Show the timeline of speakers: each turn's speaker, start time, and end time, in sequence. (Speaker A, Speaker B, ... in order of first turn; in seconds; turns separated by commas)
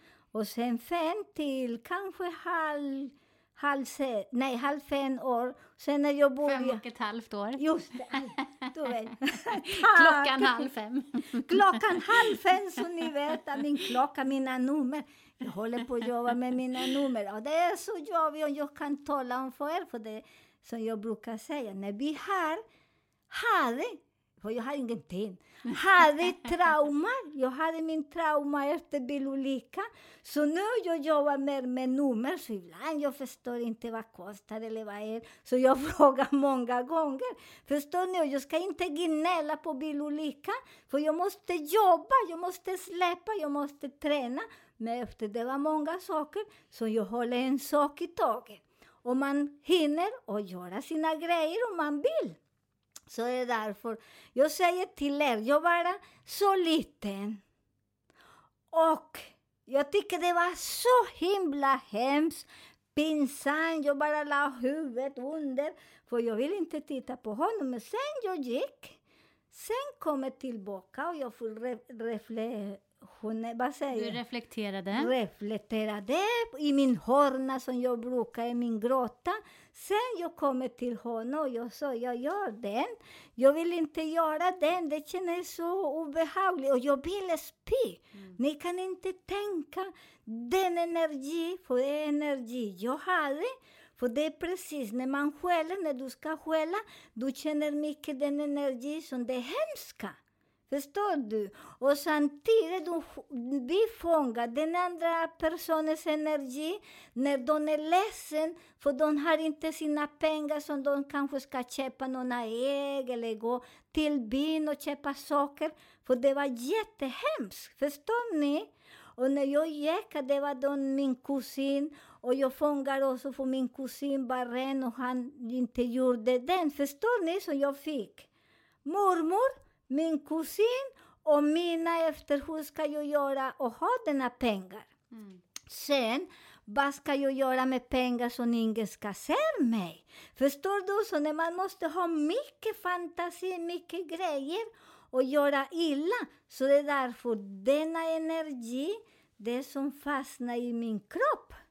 Speaker A: 0.3-6.8, Speaker B: 6.4-7.6, Speaker A: 7.6-10.7, Speaker B: 9.5-11.7, Speaker A: 11.4-22.6, Speaker A: 23.3-52.4, Speaker A: 53.1-57.4, Speaker A: 58.7-69.0, Speaker A: 69.5-74.2, Speaker B: 73.9-75.1, Speaker A: 75.0-100.2, Speaker A: 100.7-128.3, Speaker A: 128.8-134.9, Speaker A: 135.7-151.6